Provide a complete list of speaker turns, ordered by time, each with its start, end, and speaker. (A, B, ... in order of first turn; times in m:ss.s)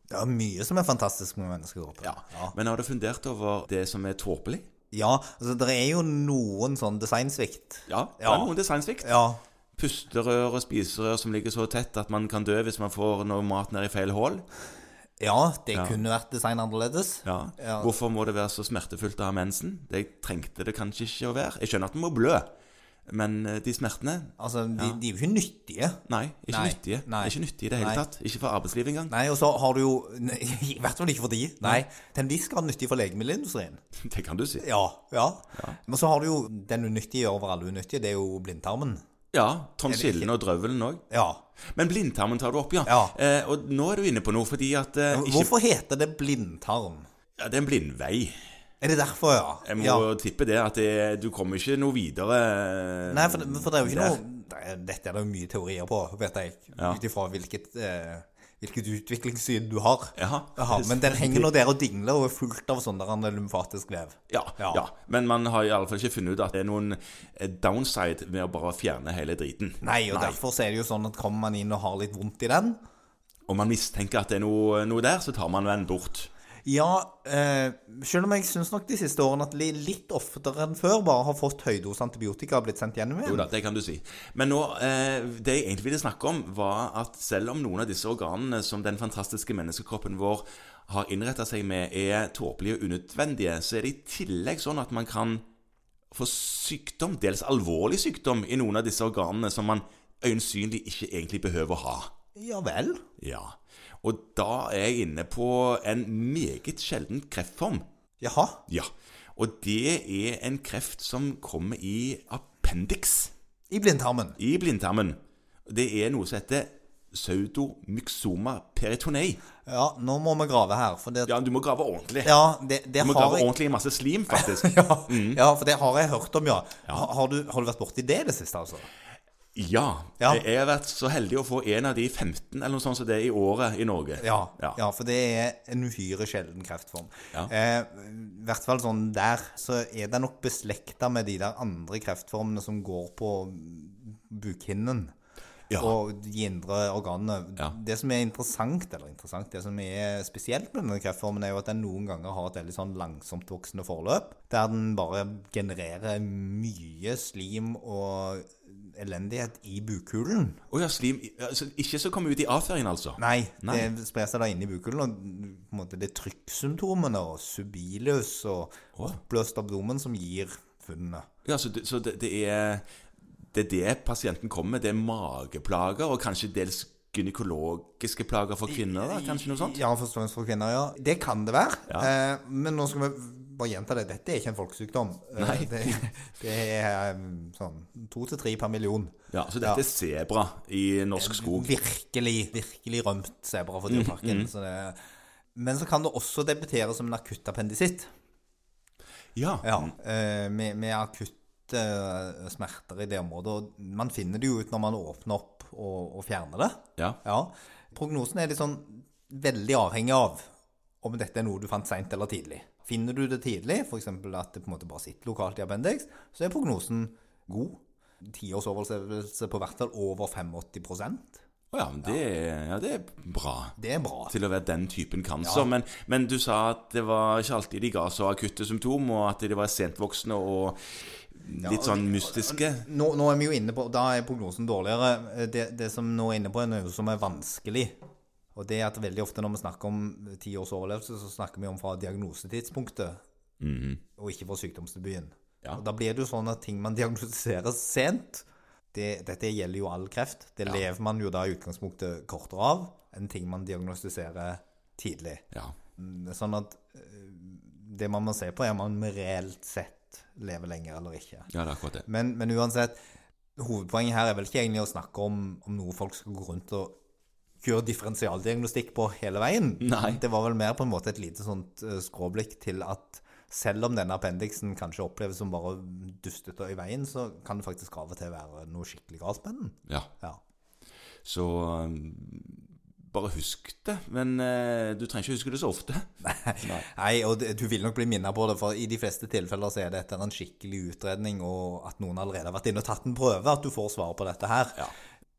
0:00.1-0:02.6 A
0:02.0-0:04.7 B
0:04.9-0:09.4 A
0:07.9-0:09.1 B
0:09.8-0:14.5 B
0:15.2-0:17.9 A
0:15.7-0:16.0 B
0:17.2-0:22.5 B
0:23.1-0:25.0 B
0:24.4-0:28.0 A
0:26.1-0:29.1 B
0:29.1-0:33.8 A
0:34.0-0:34.7 B
0:34.6-0:39.0 A
0:39.3-0:41.0 B
0:39.9-0:40.3 A
0:41.1-0:41.4 A
0:41.8-0:45.5 B
0:42.8-0:43.2 A
0:45.1-0:47.1 A
0:47.4-0:48.4 B
0:48.8-0:50.1 A
0:49.6-0:54.2 B
0:53.1-1:04.9 A
1:00.2-1:01.5 B
1:04.3-1:10.4 B
1:09.8-1:12.8 A
1:13.5-1:16.3 B
1:16.6-1:23.5 A
1:23.2-1:35.4 B
1:36.1-1:42.1 B
1:42.4-1:43.0 A
1:43.2-1:47.8 B
1:48.2-1:48.6 A
1:48.7-1:53.3 B
1:53.7-1:54.4 A
1:54.4-1:59.4 B
1:59.7-2:01.3 A
2:01.3-2:02.4 B
2:02.2-2:03.5 A
2:03.0-2:05.4 B
2:04.3-2:08.9 A
2:09.6-2:14.8 B
2:14.2-2:25.1 A
2:25.7-2:26.0 B
2:25.8-2:40.6 A
2:40.7-2:43.9 B
2:43.2-2:51.3 A
2:51.4-2:52.8 B
2:53.5-2:59.8 B
2:58.7-3:09.8 A
3:05.4-3:06.1 B
3:09.3-3:11.7 B
3:11.2-3:15.0 A
3:13.9-3:14.5 B
3:15.6-3:18.1 A
3:19.4-3:19.9 B
3:19.6-3:30.5 A
3:31.0-3:41.4 A
3:41.7-3:43.8 B
3:43.8-3:44.3 A
3:44.3-3:52.9 B
3:45.4-3:45.7 A
3:51.6-3:58.0 A
3:58.6-4:03.2 A
4:03.6-4:04.0 B
4:04.2-4:15.4 A
4:16.0-4:21.5 A
4:21.5-4:22.0 B
4:22.0-4:23.0 A
4:23.6-4:26.9 A
4:27.6-4:40.4 A
4:29.8-4:30.2 B
4:41.2-4:46.1 B
4:46.2-4:54.9 A
4:46.6-4:46.9 B